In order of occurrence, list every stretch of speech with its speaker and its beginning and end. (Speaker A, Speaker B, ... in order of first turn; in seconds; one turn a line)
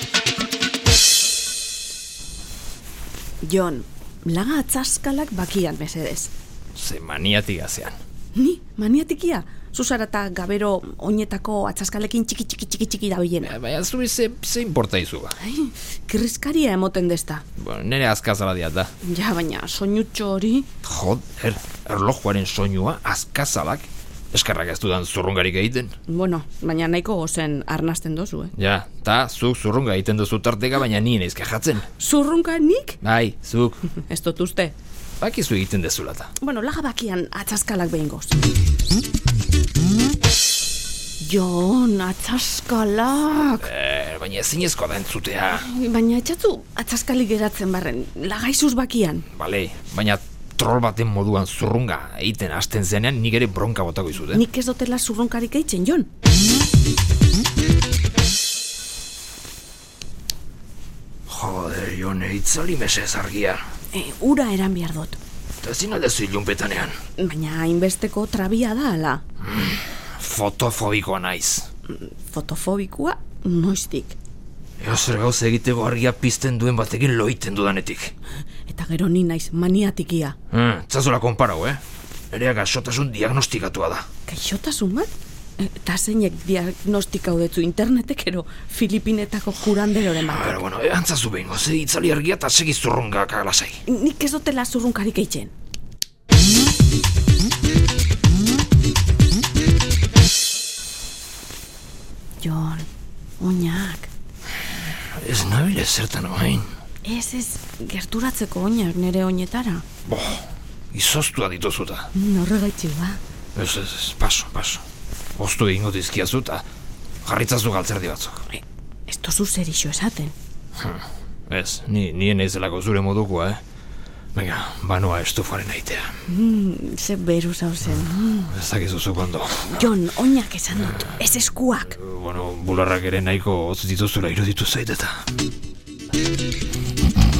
Speaker A: 3.4-6.3
Speaker B: 6.7-8.0
Speaker A: 8.3-13.6
Speaker B: 13.4-15.3
Speaker A: 15.4-17.4
Speaker B: 17.6-18.9
Speaker A: 19.0-20.7
Speaker B: 20.8-25.9
Speaker A: 26.1-28.5
Speaker B: 28.5-31.9
Speaker A: 32.0-33.0
Speaker B: 33.0-33.8
Speaker A: 33.9-34.7
Speaker B: 35.2-36.3
Speaker A: 36.4-38.4
Speaker A: 41.2-43.7
Speaker B: 43.4-45.7
Speaker A: 45.5-49.2
Speaker B: 49.3-54.4
Speaker A: 54.3-56.1
Speaker B: 61.3-63.6
Speaker A: 63.9-65.2
Speaker B: 65.6-67.0
Speaker A: 67.2-69.2
Speaker B: 69.4-71.7
Speaker A: 71.9-74.2
Speaker B: 74.8-78.1
Speaker A: 78.6-80.4
Speaker B: 80.5-84.0
Speaker A: 84.2-90.6
Speaker B: 90.1-93.8
Speaker A: 93.8-95.5
Speaker A: 102.4-104.1
Speaker B: 105.1-106.7
Speaker A: 107.0-109.8
Speaker B: 110.0-112.1
Speaker A: 112.1-113.2
Speaker B: 113.5-114.8
Speaker B: 115.4-116.6
Speaker B: 117.2-118.4
Speaker A: 118.5-120.3
Speaker B: 120.8-123.6
Speaker B: 124.3-126.1
Speaker A: 126.3-128.5
Speaker B: 128.5-129.9
Speaker A: 129.6-132.0
Speaker B: 131.9-135.2